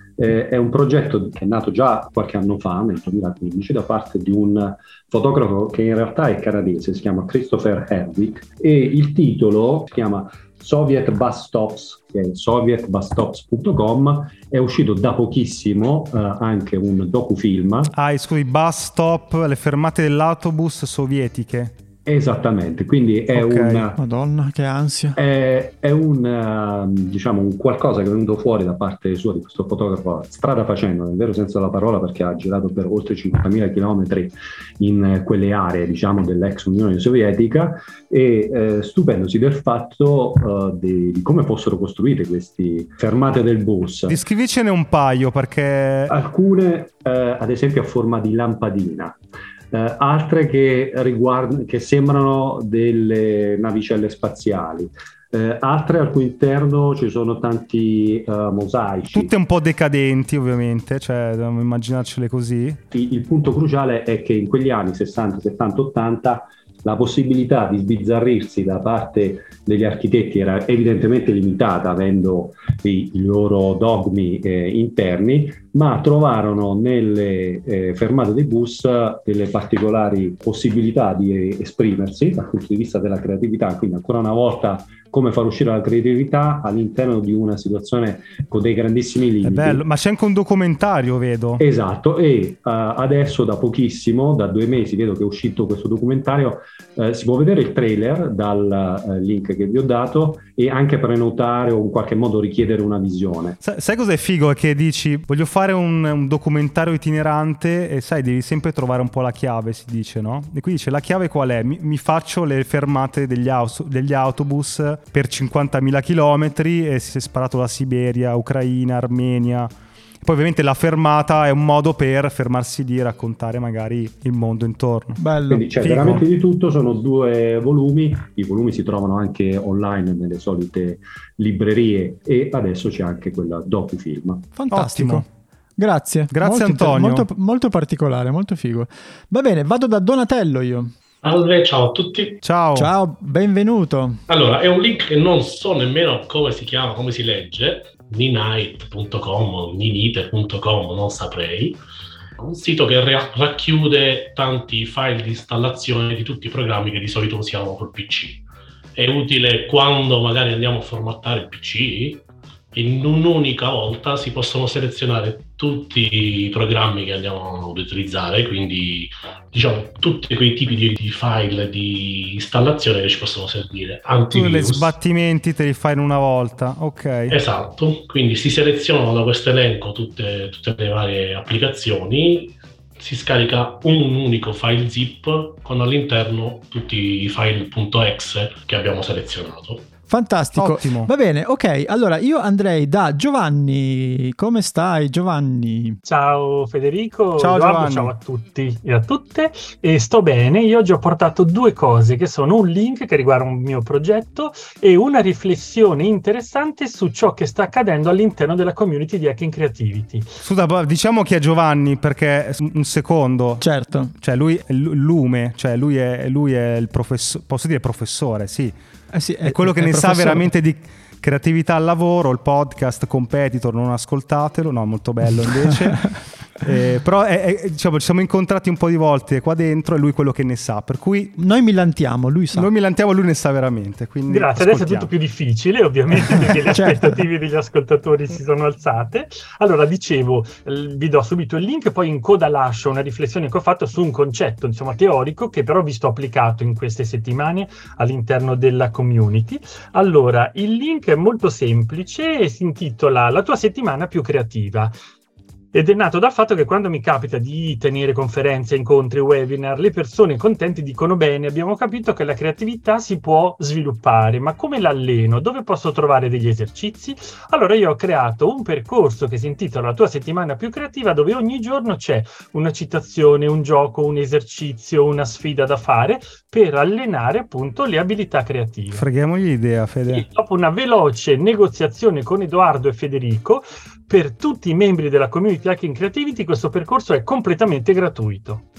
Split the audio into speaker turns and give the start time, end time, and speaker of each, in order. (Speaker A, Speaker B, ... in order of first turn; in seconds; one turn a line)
Speaker A: 0.2-17.9
Speaker B: 17.9-21.7
Speaker A: 22.1-24.0
Speaker B: 23.3-23.9
Speaker C: 24.0-25.2
Speaker A: 25.2-44.2
Speaker B: 44.1-46.1
Speaker A: 46.1-49.2
Speaker A: 49.7-59.3
Speaker B: 59.1-62.8
Speaker A: 62.9-89.8
Speaker B: 89.4-91.6
Speaker A: 91.6-103.6
Speaker B: 103.6-119.7
Speaker B: 120.2-125.2
Speaker C: 125.2-125.7
Speaker A: 125.5-134.4
Speaker B: 125.8-126.2
Speaker C: 134.5-135.2
Speaker B: 134.7-135.2
Speaker C: 135.8-140.9
Speaker B: 136.3-137.2
Speaker D: 141.2-142.4
Speaker B: 142.4-142.9
Speaker C: 142.8-144.2
Speaker D: 144.3-151.8
Speaker D: 152.4-174.9
Speaker B: 174.3-177.3
Speaker D: 177.3-189.8
Speaker C: 190.1-196.0
Speaker B: 190.6-191.1
Speaker E: 196.0-210.3
Speaker B: 197.4-198.1
Speaker B: 210.4-218.7
Speaker C: 213.6-214.1
Speaker C: 219.1-220.5
Speaker B: 219.4-231.3
Speaker C: 225.7-226.1
Speaker C: 231.3-232.7
Speaker B: 232.5-235.1
Speaker E: 234.3-254.9
Speaker C: 236.7-237.2
Speaker E: 255.7-279.1
Speaker B: 278.9-280.2
Speaker E: 280.1-288.7